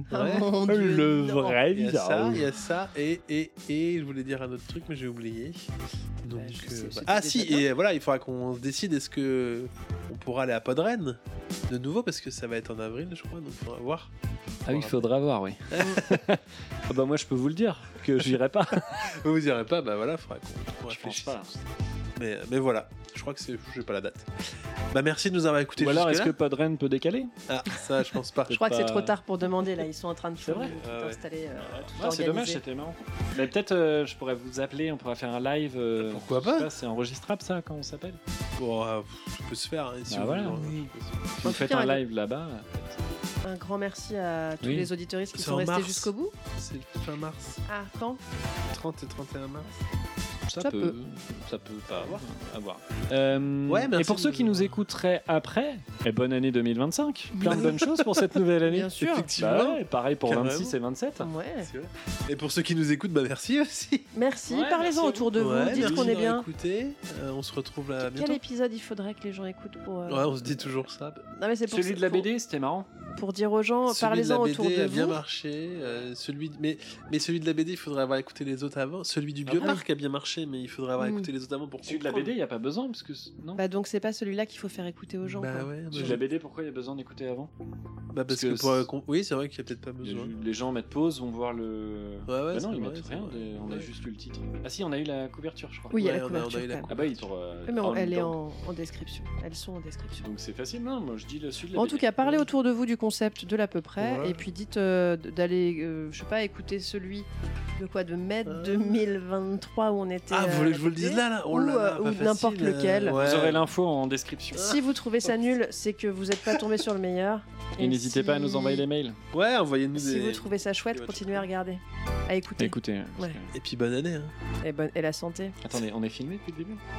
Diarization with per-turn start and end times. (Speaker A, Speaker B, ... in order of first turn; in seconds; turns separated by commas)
Speaker A: 0.1-5.7, Speaker B: 0.1-1.6, Speaker C: 0.6-2.5, Speaker A: 6.2-14.1, Speaker B: 6.3-7.7, Speaker A: 14.7-15.1, Speaker C: 14.7-19.1, Speaker A: 15.7-16.0, Speaker A: 19.0-21.6, Speaker C: 20.9-21.5, Speaker A: 22.2-24.3, Speaker A: 24.9-26.4, Speaker C: 25.8-27.3, Speaker A: 27.5-28.6, Speaker C: 28.5-29.2, Speaker B: 28.5-32.6, Speaker C: 30.4-30.8, Speaker A: 30.8-31.2, Speaker C: 31.6-38.2, Speaker A: 36.0-36.7, Speaker A: 38.6-41.4, Speaker C: 40.1-43.0, Speaker B: 41.4-42.0, Speaker B: 43.4-46.3, Speaker C: 44.6-44.9, Speaker A: 45.3-47.6, Speaker B: 47.7-48.2, Speaker A: 48.7-49.7, Speaker C: 50.5-61.3, Speaker B: 50.6-51.0, Speaker A: 51.9-52.3, Speaker A: 53.7-54.8, Speaker B: 57.4-57.7, Speaker A: 57.4-58.2, Speaker B: 58.7-59.3, Speaker A: 59.0-60.8, Speaker B: 61.2-61.7, Speaker A: 61.6-64.1, Speaker B: 64.1-66.5, Speaker C: 64.5-66.2, Speaker A: 65.4-68.4, Speaker B: 68.0-70.6, Speaker A: 70.1-71.2, Speaker B: 71.4-72.3, Speaker C: 71.7-72.9, Speaker B: 73.2-75.2, Speaker A: 73.9-82.3, Speaker C: 79.5-79.7, Speaker B: 79.6-79.8, Speaker B: 81.0-81.3, Speaker C: 81.8-83.6, Speaker B: 83.6-86.2, Speaker A: 85.2-86.2, Speaker C: 85.9-87.5, Speaker A: 88.1-90.3, Speaker C: 88.3-88.9, Speaker C: 90.0-96.0, Speaker A: 92.3-93.9, Speaker B: 95.9-96.9, Speaker A: 95.9-97.3, Speaker C: 96.9-98.4, Speaker B: 97.7-100.2, Speaker C: 100.2-102.4, Speaker B: 101.8-113.2, Speaker A: 104.0-104.5, Speaker A: 108.5-109.0, Speaker A: 110.3-113.6, Speaker C: 113.1-114.7, Speaker A: 114.5-115.3, Speaker B: 114.5-118.8, Speaker A: 116.5-116.8, Speaker C: 117.8-119.2, Speaker A: 119.3-121.5, Speaker B: 120.0-123.4, Speaker C: 122.6-123.5, Speaker A: 123.5-124.3, Speaker B: 124.6-125.6, Speaker C: 125.6-126.8